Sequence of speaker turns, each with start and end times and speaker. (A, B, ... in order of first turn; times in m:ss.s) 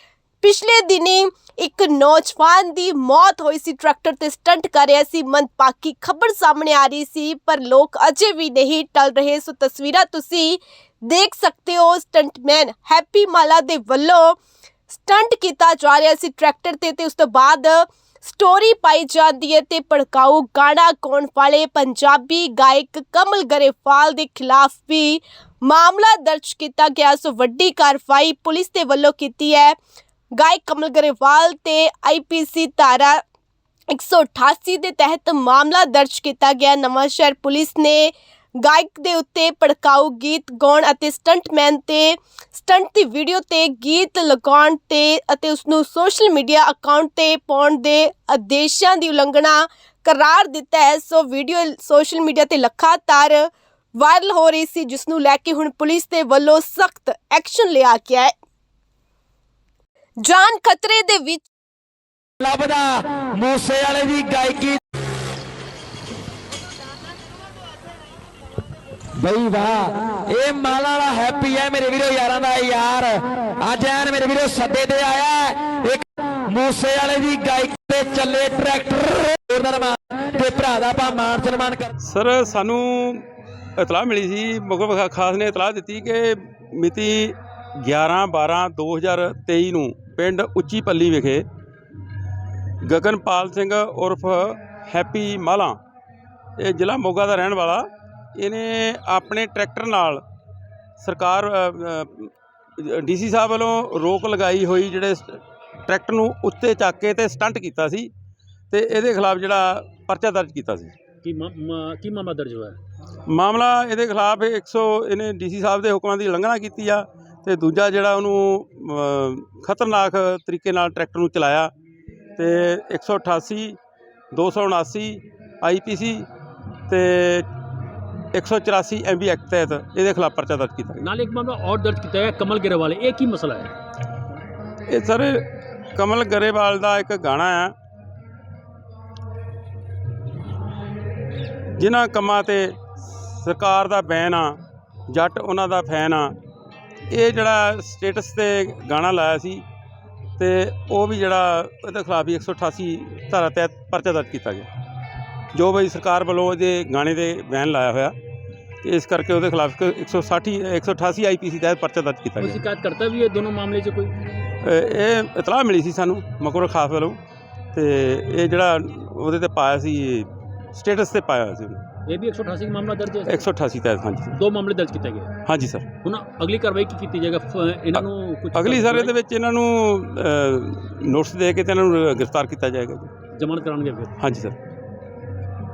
0:00.4-0:14.4 A
0:14.9-0:29.8 A
0:30.4-0:33.2 A
0:33.9-0:58.3 A
1:00.2-1:01.4 A
1:02.4-1:04.8 B
1:09.2-1:21.9 B
1:22.0-1:23.2 C
1:23.8-1:31.4 C
1:32.8-1:35.8 C
1:36.6-1:40.2 C
1:41.0-1:48.1 C
1:48.7-1:51.0 C
1:51.2-1:52.8 D
1:53.3-2:01.7 C
2:02.4-2:03.8 C
2:04.3-2:06.3 C
2:06.9-2:07.4 C
2:08.3-2:11.0 C
2:11.0-2:13.7 D
2:14.9-2:17.7 C
2:21.8-2:24.6 C
2:25.1-2:26.3 C
2:27.1-2:29.6 C
2:30.4-2:34.7 C
2:35.5-2:38.2 C
2:38.8-2:42.6 C
2:42.4-2:44.1 D
2:44.6-2:47.2 C
2:47.7-2:51.8 C
2:52.1-2:53.4 D
2:53.3-2:54.3 C
2:54.3-2:55.3 D
2:55.4-2:55.9 C
2:56.0-2:59.1 D
2:58.0-3:03.1 C
3:03.3-3:04.1 D
3:04.2-3:04.6 C